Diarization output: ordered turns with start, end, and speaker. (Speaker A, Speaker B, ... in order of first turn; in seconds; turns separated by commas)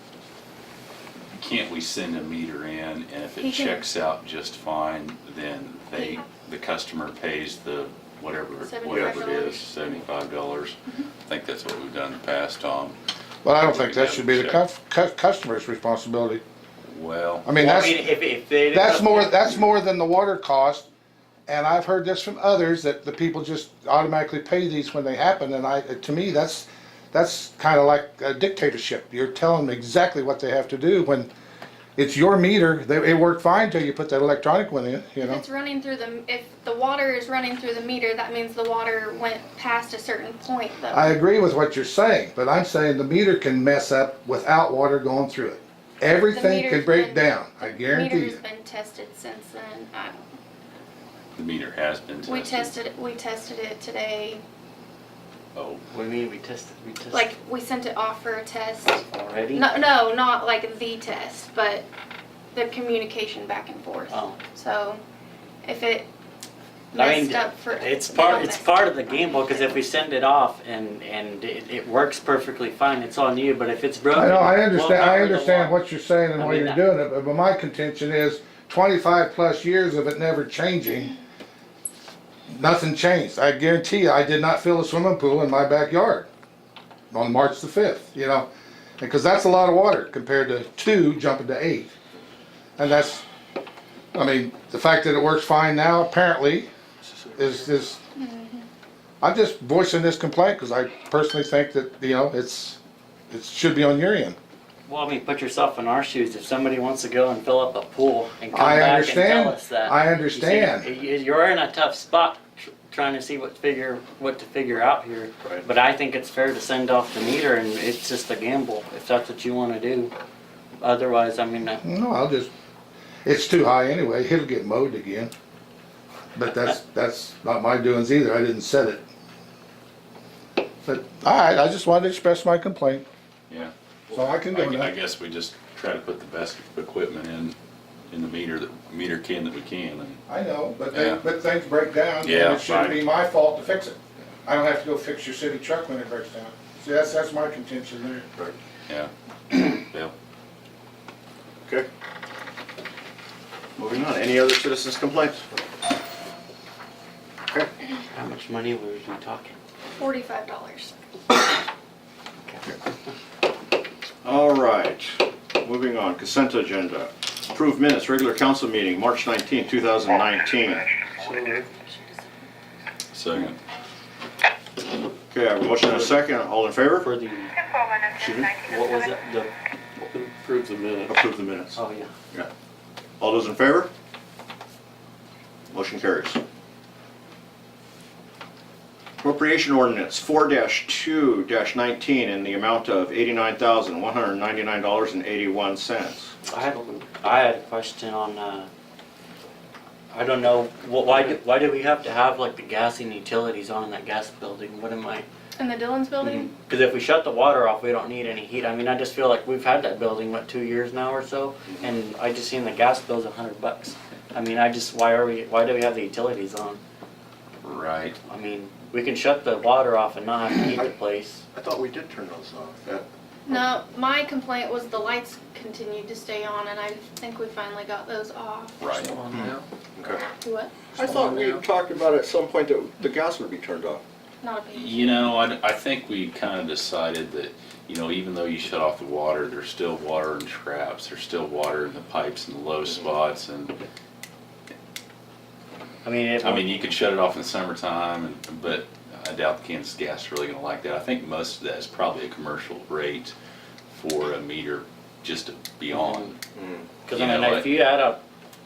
Speaker A: 1.3-13.0, Speaker B: 3.4-3.9, Speaker B: 5.9-6.3, Speaker B: 8.6-9.7, Speaker C: 13.4-16.4, Speaker A: 13.7-14.6, Speaker A: 16.9-17.5, Speaker C: 17.4-18.1, Speaker D: 17.6-19.7, Speaker C: 18.7-20.9, Speaker C: 21.5-31.3, Speaker C: 31.9-35.4, Speaker B: 35.2-41.2, Speaker C: 40.9-48.4, Speaker B: 46.2-50.3, Speaker A: 51.4-52.7, Speaker B: 52.2-54.4, Speaker A: 55.5-55.8, Speaker D: 55.9-57.3, Speaker B: 57.1-61.9, Speaker D: 59.1-59.6, Speaker B: 62.5-65.0, Speaker D: 64.1-64.4, Speaker B: 65.6-66.1, Speaker B: 66.9-69.7, Speaker D: 67.0-75.8, Speaker C: 74.1-81.1, Speaker D: 76.4-76.8, Speaker C: 82.5-86.3, Speaker C: 87.1-88.5, Speaker C: 89.0-91.9, Speaker C: 92.8-93.2, Speaker C: 94.1-96.7, Speaker C: 97.3-98.0, Speaker B: 98.1-98.7, Speaker C: 99.2-102.8, Speaker C: 103.3-104.3, Speaker D: 104.9-120.1, Speaker C: 108.5-110.9, Speaker D: 120.8-121.8, Speaker C: 121.8-122.5, Speaker C: 123.2-125.3, Speaker C: 126.3-129.0, Speaker C: 130.8-133.0, Speaker A: 133.5-137.6, Speaker C: 134.1-134.9, Speaker A: 138.1-140.2, Speaker C: 140.3-148.2, Speaker A: 140.9-141.2, Speaker A: 142.2-143.0, Speaker A: 148.9-150.1, Speaker E: 153.8-155.4, Speaker D: 158.1-159.6, Speaker B: 160.0-160.9, Speaker D: 162.4-162.8, Speaker E: 164.2-170.9, Speaker F: 171.2-171.7, Speaker A: 173.1-173.6, Speaker E: 175.3-177.1, Speaker D: 175.8-176.2, Speaker D: 176.9-177.5, Speaker B: 177.8-178.7, Speaker E: 178.2-178.6, Speaker D: 178.6-179.5, Speaker F: 180.0-181.3, Speaker E: 181.1-181.7, Speaker D: 181.7-182.1, Speaker E: 183.2-183.9, Speaker E: 185.7-186.4, Speaker E: 189.2-196.3, Speaker D: 196.4-198.7, Speaker D: 200.1-205.2, Speaker B: 205.6-206.5, Speaker D: 206.2-216.8, Speaker A: 217.6-218.2, Speaker D: 218.2-221.4, Speaker E: 221.5-223.1, Speaker B: 223.4-229.2, Speaker A: 228.8-229.1, Speaker F: 229.2-229.6, Speaker E: 229.3-230.2, Speaker B: 230.3-230.8, Speaker E: 230.9-234.0, Speaker F: 231.3-231.6, Speaker B: 234.4-235.3, Speaker A: 234.7-243.7, Speaker D: 246.0-246.9, Speaker A: 246.4-253.3, Speaker A: 253.9-256.4, Speaker D: 255.9-256.2, Speaker E: 256.6-256.9, Speaker D: 257.0-258.2, Speaker A: 257.1-257.7